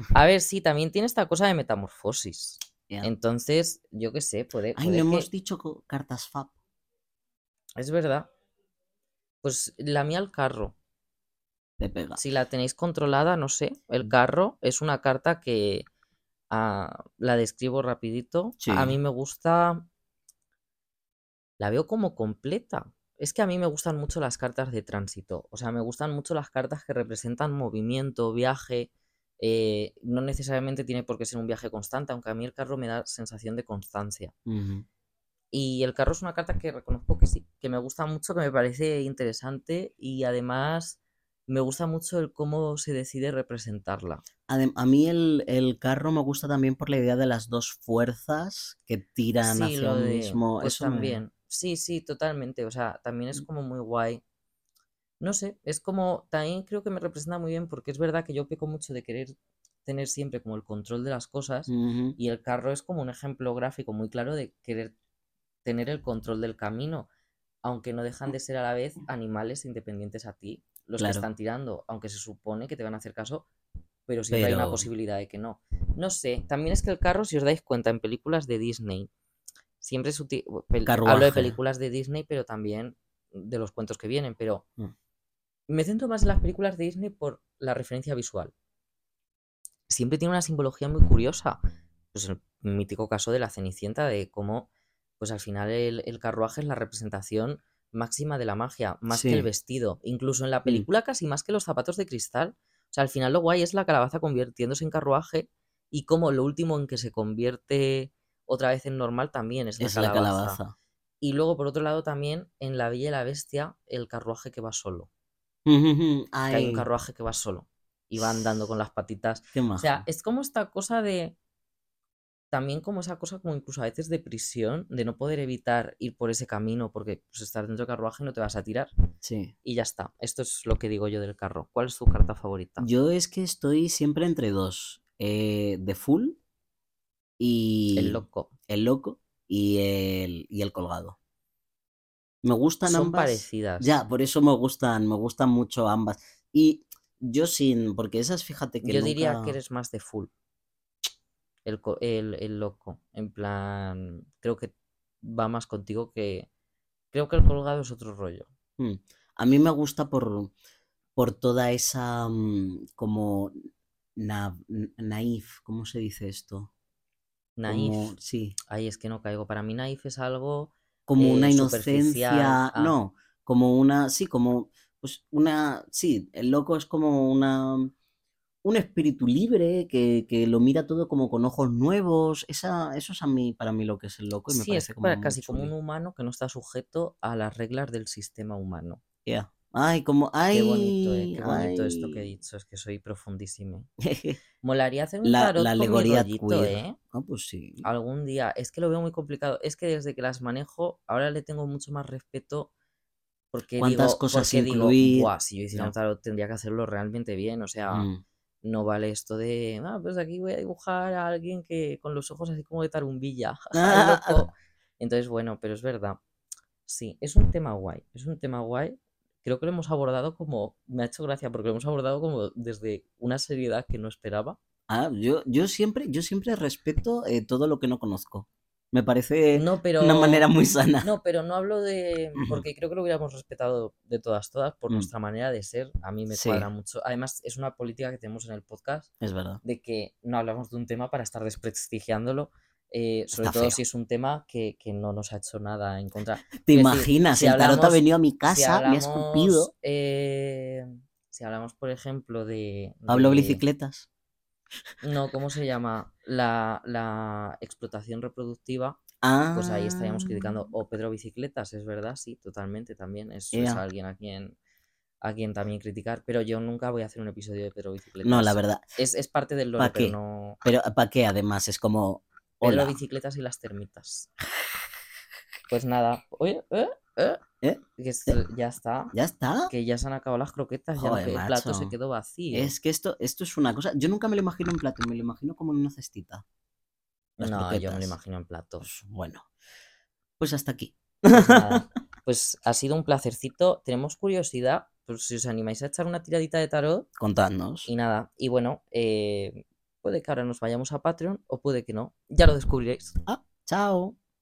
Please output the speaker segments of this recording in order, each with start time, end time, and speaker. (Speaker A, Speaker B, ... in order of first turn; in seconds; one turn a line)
Speaker A: 0.1-5.3
Speaker B: 4.8-6.5
Speaker A: 7.8-8.3
Speaker A: 9.4-10.8
Speaker B: 11.8-12.2
Speaker A: 12.2-15.9
Speaker A: 16.5-19.9
Speaker B: 18.6-19.0
Speaker A: 21.6-34.3
Speaker B: 34.5-34.9
Speaker A: 35.5-44.2
Speaker B: 44.5-51.2
Speaker A: 49.4-54.2
Speaker A: 55.2-59.3
Speaker A: 59.9-64.9
Speaker B: 61.7-62.2
Speaker A: 65.6-67.1
Speaker A: 67.6-73.5
Speaker B: 71.0-71.3
Speaker A: 74.1-79.1
Speaker B: 74.3-74.9
Speaker A: 79.8-84.7
Speaker B: 80.8-81.6
Speaker A: 85.7-88.5
Speaker A: 89.9-91.6
Speaker A: 92.1-110.6
Speaker B: 99.1-99.5
Speaker B: 109.8-110.7
Speaker A: 111.2-115.1
Speaker B: 115.7-116.9
Speaker A: 116.5-121.4
Speaker B: 119.5-120.0
Speaker A: 122.5-128.9
Speaker B: 129.2-129.5
Speaker A: 129.6-132.9
Speaker B: 132.8-136.4
Speaker B: 137.4-141.2
Speaker A: 138.0-138.5
Speaker B: 142.4-149.6
Speaker A: 142.9-143.9
Speaker A: 148.8-150.3
Speaker A: 151.7-156.5
Speaker A: 157.1-158.5
Speaker B: 158.8-160.5
Speaker B: 161.2-163.6
Speaker B: 164.2-166.7
Speaker A: 167.6-168.1
Speaker B: 167.7-168.6
Speaker A: 168.7-173.0
Speaker B: 171.1-177.9
Speaker B: 178.6-185.7
Speaker A: 184.5-189.0
Speaker B: 189.2-192.3
Speaker A: 190.5-193.9
Speaker B: 194.0-194.4
Speaker A: 194.6-197.0
Speaker B: 195.2-197.9
Speaker A: 197.8-202.7
Speaker A: 203.5-208.1
Speaker B: 203.8-205.9
Speaker B: 207.9-208.2
Speaker A: 208.6-216.2
Speaker B: 213.7-214.5
Speaker A: 216.9-224.6
Speaker B: 224.9-231.1
Speaker A: 229.5-230.5
Speaker A: 231.0-239.1
Speaker B: 232.4-232.6
Speaker B: 236.3-236.7
Speaker B: 239.2-239.6
Speaker A: 239.6-253.6
Speaker B: 243.3-243.8
Speaker B: 246.6-249.7
Speaker B: 253.1-254.1
Speaker A: 255.0-259.0
Speaker B: 259.2-260.6
Speaker A: 259.5-264.6
Speaker B: 263.5-263.8
Speaker A: 265.2-270.6
Speaker B: 268.2-268.8
Speaker B: 269.8-273.0
Speaker A: 272.6-274.3
Speaker A: 275.7-277.4
Speaker B: 277.6-278.4
Speaker A: 278.0-279.1
Speaker B: 279.1-279.7
Speaker A: 279.7-282.7
Speaker B: 281.0-281.9
Speaker B: 282.5-286.4
Speaker A: 287.4-288.9
Speaker B: 287.4-288.2
Speaker B: 288.8-289.5
Speaker B: 290.4-291.9
Speaker A: 291.3-297.1
Speaker B: 297.2-297.9
Speaker A: 297.9-303.2
Speaker B: 303.3-304.1